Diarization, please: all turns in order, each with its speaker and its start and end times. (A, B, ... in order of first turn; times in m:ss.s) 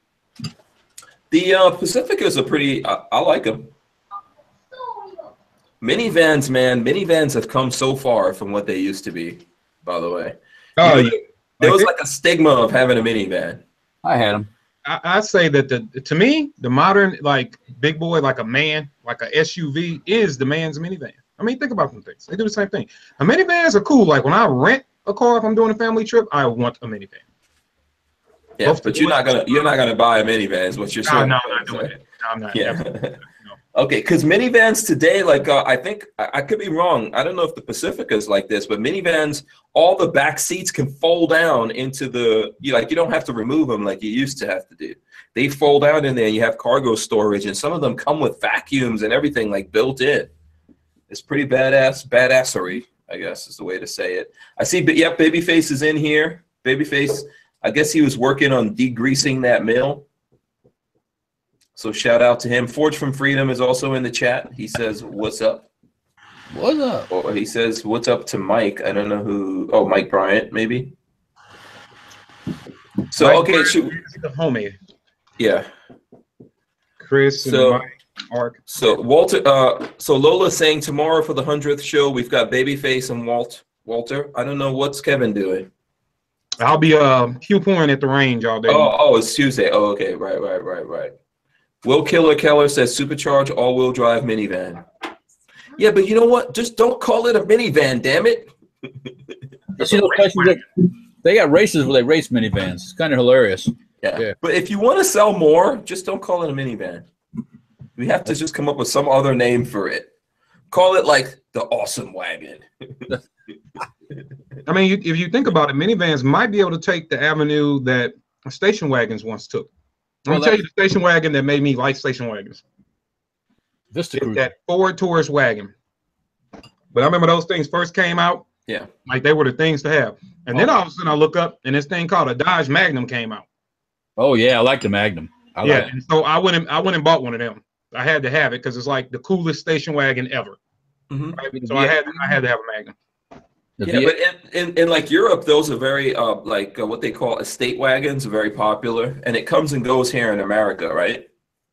0:01.3-0:03.7 A
0:05.8-0:13.6 A
0:10.8-0:11.9 B
0:14.0-0:14.5 C
0:14.8-0:27.2 B
0:28.6-0:32.0 A
0:28.6-0:29.7 B
0:31.0-0:33.6 B
0:32.5-0:33.2 A
0:33.7-0:50.3 A
0:51.1-1:00.0 A
1:01.8-1:05.7 A
1:06.5-1:07.1 C
1:07.1-1:10.9 A
1:13.1-1:14.0 A
1:13.2-1:14.8 B
1:15.4-1:15.7 A
1:17.0-1:18.6 B
1:17.4-1:17.8 A
1:18.7-1:25.7 A
1:26.6-1:28.9 B
1:28.7-1:31.1 A
1:31.8-1:34.8 A
1:35.8-1:38.5 A
1:39.8-1:40.2 A
1:39.8-1:40.6 C
1:40.2-1:40.5 B
1:41.2-1:44.3 C
1:44.0-1:47.0 A
1:48.0-1:50.1 A
1:50.7-1:53.1 A
1:54.7-1:59.7 B
2:00.2-2:02.6 B
2:00.3-2:00.6 C
2:03.9-2:04.4 C
2:04.1-2:05.7 B
2:06.9-2:08.4 B
2:09.1-2:13.4 B
2:14.2-2:15.9 C
2:15.6-2:20.6 B
2:21.1-2:21.4 A
2:21.4-2:23.0 B
2:21.5-2:22.4 C
2:23.8-2:24.1 C
2:23.8-2:31.3 A